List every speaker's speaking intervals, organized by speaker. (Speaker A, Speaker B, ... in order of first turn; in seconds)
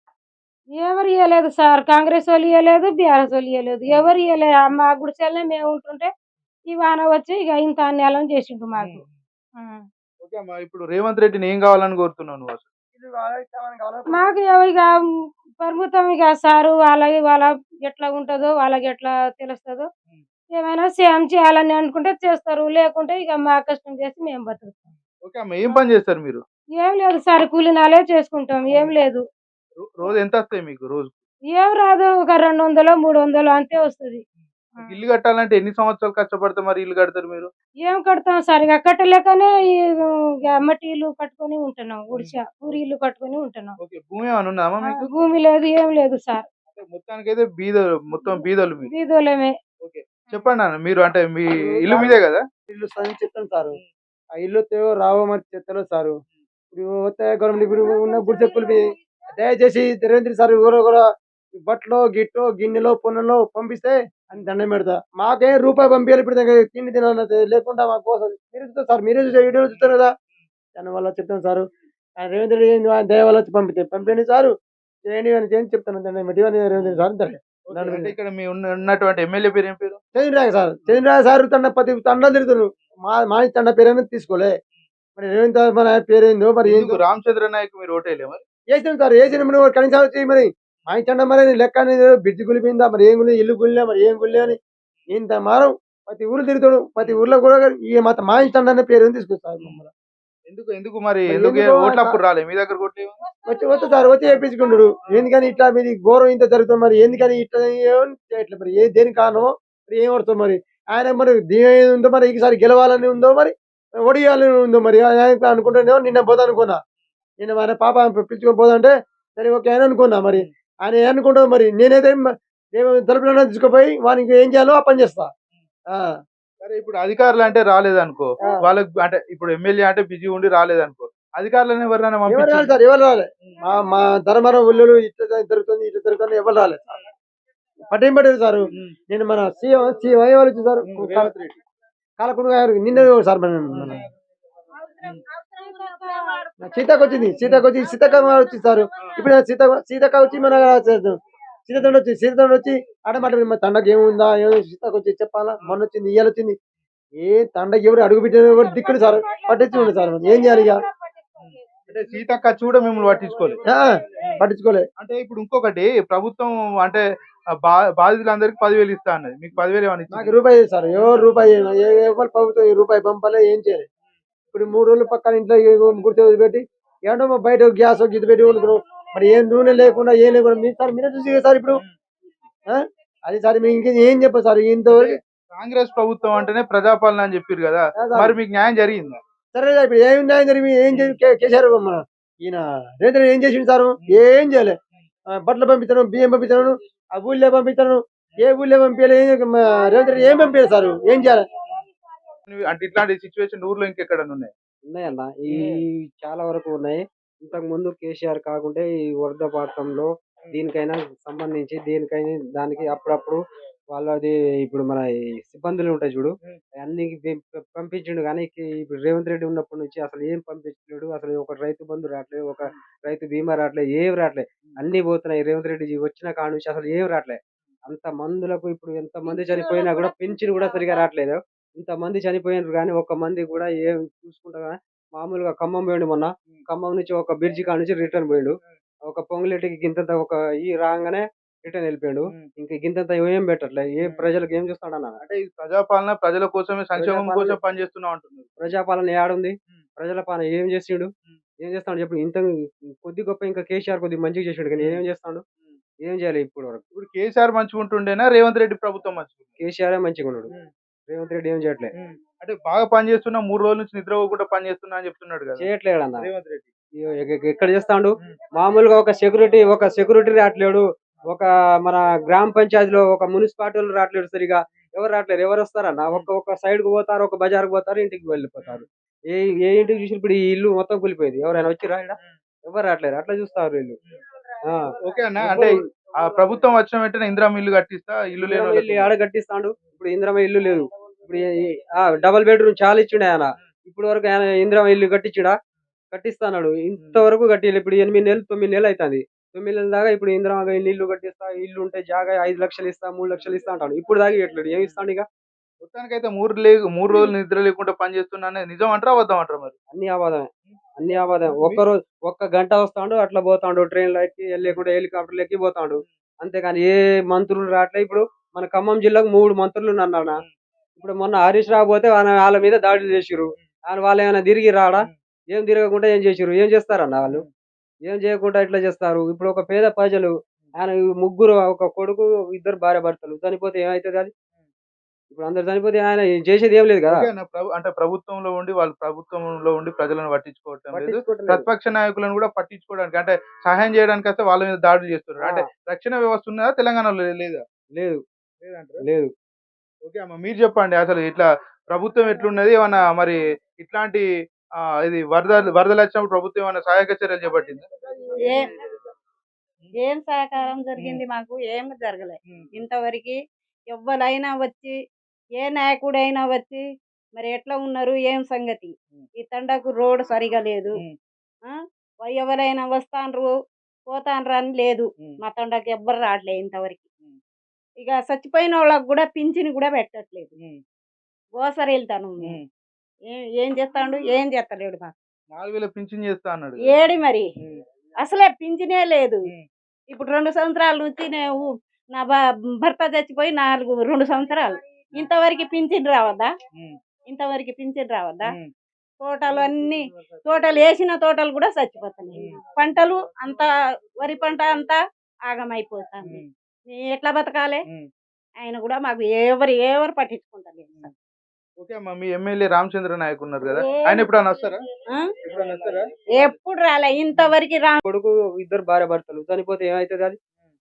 Speaker A: 0.8-6.1, 6.7-9.0, 9.6-9.8, 14.1-14.9, 15.6-19.9, 20.5-24.9, 25.7-25.9, 26.8-29.2, 31.5-34.2, 37.8-43.7, 44.9-46.4, 48.1-49.5, 145.5-146.6
Speaker B: 8.8-9.1, 10.2-12.7, 25.2-26.4, 29.8-31.2, 34.8-37.5, 43.8-45.1, 46.7-48.9, 49.8-52.4, 76.8-77.0, 77.7-80.0, 86.7-88.4, 100.5-103.2, 126.6-132.7, 140.9-141.6, 161.4-163.6, 165.0-167.0, 167.6-170.3, 171.0-171.2, 184.9-189.2, 190.9-191.2, 202.5-204.5, 205.5-205.8, 245.2-248.5, 256.9-259.5, 262.0-265.6, 266.2-266.7, 285.0-289.1, 304.7-305.0, 305.8-309.7, 311.5-311.8, 337.1-347.6, 348.6-349.0, 350.0-354.2, 355.0-357.8, 385.5-386.9, 411.8-414.8, 415.4-416.0
Speaker C: 12.9-14.3, 51.5-52.1, 52.7-53.8, 54.4-56.1, 56.7-58.9, 59.4-61.0, 61.6-70.1, 70.8-71.6, 72.2-74.5, 75.1-78.1, 80.1-84.5, 85.2-87.0, 88.7-94.6, 95.1-99.9, 101.3-102.2, 103.5-113.5, 114.0-116.8, 117.4-122.2, 122.7-125.3, 132.3-136.8, 137.9-141.3, 142.2-144.0, 146.6-151.2, 151.7-156.5, 157.2-160.8, 164.4-164.8, 170.1-173.8, 174.5-181.8, 182.7-185.1, 188.0-188.3, 189.5-194.7, 195.4-201.4
Speaker D: 204.8-213.4, 213.9-238.6, 239.1-245.2, 247.0-247.6, 248.6-251.1, 251.6-252.5, 253.0-255.4, 256.0-256.8, 259.6-260.5, 261.1-261.9, 265.6-266.3, 267.0-283.9, 284.6-285.8, 288.4-295.6, 296.1-305.2, 309.9-320.4, 321.0-327.4, 328.0-334.3, 335.3-337.3, 340.9-341.7, 345.4-345.7, 347.9-348.2, 349.0-349.3, 418.0-420.4
Speaker E: 360.0-363.4, 363.9-364.9, 365.6-366.8, 367.4-370.9, 372.2-373.5, 374.1-377.0, 378.0-380.5, 381.6-382.6, 383.3-385.1, 386.9-387.4, 388.2-389.4, 390.1-396.5, 397.3-398.4, 399.2-403.7, 404.2-405.0, 405.5-407.8, 408.6-411.1, 413.8-414.3, 416.4-418.0